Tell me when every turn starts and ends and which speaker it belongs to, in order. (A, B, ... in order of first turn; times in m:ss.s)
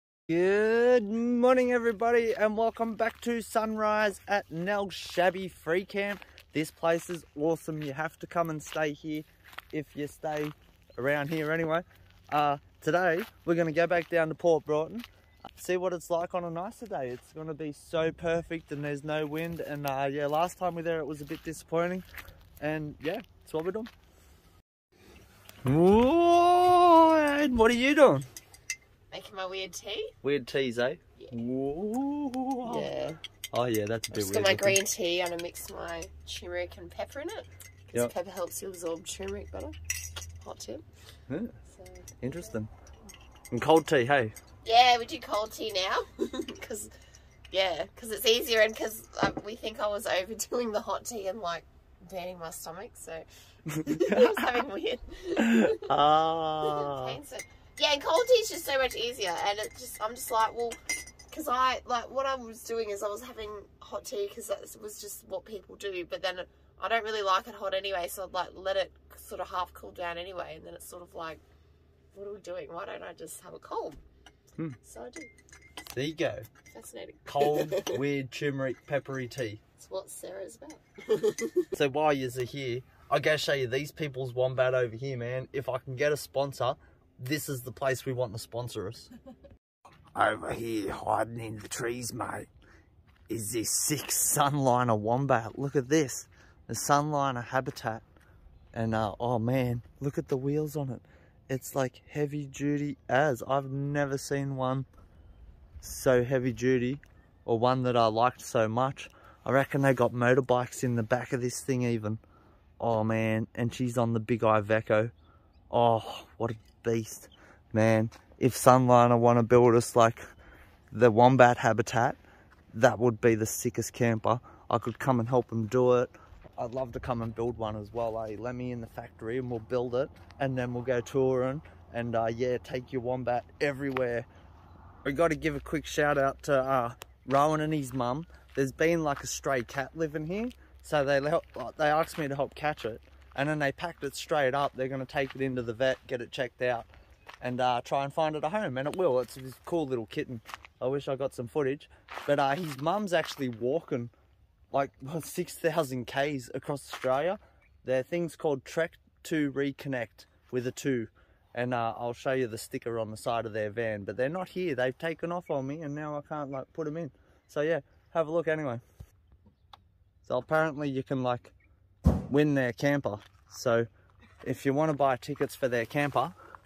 0:00.3-0:22.0 A
0:22.6-0:23.9 A
0:25.6-0:28.3 A
0:29.1-0:30.1 B
0:30.2-0:32.9 A
0:32.6-0:33.2 B
0:33.5-0:34.8 A
0:34.1-0:39.7 B
0:40.4-0:40.8 B
0:41.3-0:41.5 A
0:41.7-0:42.1 B
0:42.2-0:42.7 A
0:43.5-0:44.3 A
0:44.6-0:46.9 B
0:47.5-0:53.3 B
0:53.7-0:54.6 A
0:53.8-0:55.9 B
0:55.4-0:57.2 A
0:56.6-1:00.8 B
1:01.3-1:11.4 B
1:12.1-1:14.0 B
1:14.8-1:15.3 B
1:15.8-1:16.5 A
1:16.7-1:18.0 B
1:17.2-1:19.6 A
1:19.8-1:21.7 B
1:21.7-1:29.1 A
1:30.1-1:32.5 A
1:33.3-1:38.0 A
1:38.7-1:44.9 A
1:45.8-1:52.2 A
1:52.8-1:55.1 A
1:55.7-2:00.2 A
2:00.9-2:02.2 A
2:02.7-2:14.3 A
2:15.0-2:26.9 A
2:27.4-2:34.1 A
2:34.7-2:48.8 A
2:50.2-2:51.5 A
2:52.3-2:53.9 A
2:54.4-2:56.3 A